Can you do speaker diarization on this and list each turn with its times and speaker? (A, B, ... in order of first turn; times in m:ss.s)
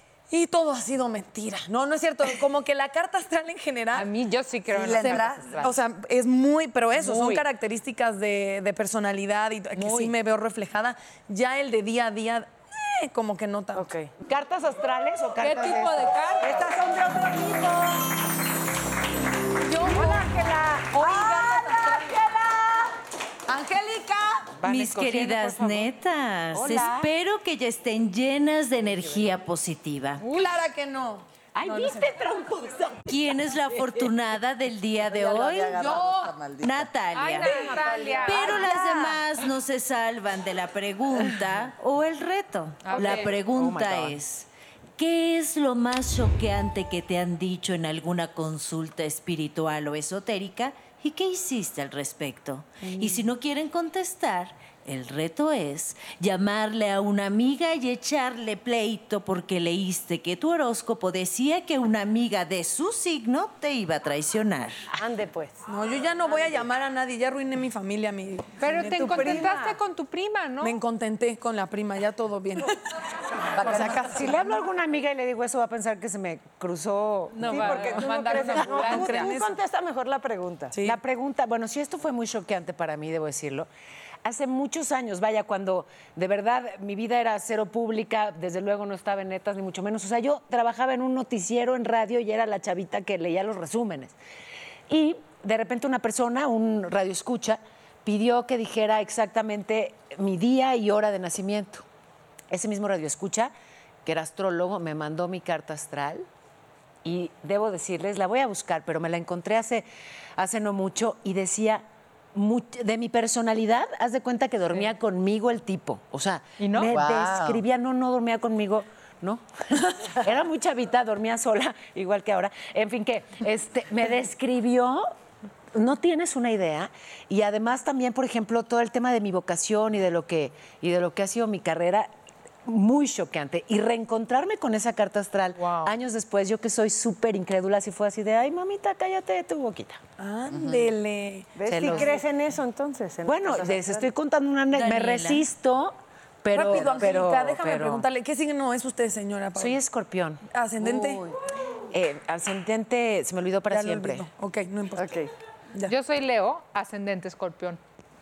0:00.3-0:04.1 A
0:03.9-0:05.8 B
0:04.7-0:05.7 C
0:05.6-0:13.9 A
0:07.0-0:07.5 B
0:09.8-0:10.1 B
0:13.8-0:14.1 D
0:14.2-0:16.1 E
0:14.8-0:15.6 D
0:15.4-0:16.6 B
0:16.4-0:17.5 D
0:17.0-0:17.8 C
0:19.6-0:22.2 A
0:20.0-0:20.4 D
0:21.0-0:22.9 C
0:23.5-0:24.5 A
0:24.6-0:25.9 E
0:24.6-0:30.2 F
0:26.5-0:27.1 E
0:30.2-0:32.1 A
0:31.5-0:33.1 E
0:33.1-0:35.9 F
0:35.1-0:36.9 C
0:35.8-0:36.3 A
0:36.6-0:37.6 F
0:37.1-0:38.7 B
0:37.4-0:39.2 A
0:37.8-0:38.5 D
0:38.2-1:04.9 F
0:42.8-0:43.3 B
0:43.0-0:44.2 E
1:04.9-1:05.6 D
1:05.7-1:09.6 A
1:08.6-1:10.8 B
1:08.8-1:09.7 D
1:10.6-1:12.8 A
1:13.5-1:14.4 A
1:13.6-1:14.1 C
1:13.6-1:18.0 E
1:17.4-1:19.3 B
1:17.4-1:20.7 D
1:18.0-1:19.6 A
1:20.7-1:21.0 A
1:20.8-1:23.7 E
1:24.2-1:34.2 E
1:34.9-1:41.9 E
1:42.5-1:43.5 E
1:44.0-1:46.3 E
1:47.0-2:05.1 E
1:56.6-1:57.4 B
1:57.0-1:57.6 F
2:05.7-2:12.1 E
2:12.6-2:20.0 E
2:15.6-2:15.9 B
2:20.2-2:21.6 A
2:21.6-2:24.1 D
2:21.7-2:22.2 E
2:23.2-2:28.1 E
2:24.7-2:25.5 F
2:26.5-2:29.8 A
2:29.6-2:31.3 E
2:30.5-2:31.2 A
2:31.9-2:34.3 E
2:33.7-2:35.2 A
2:35.0-2:35.3 D
2:35.9-2:37.8 B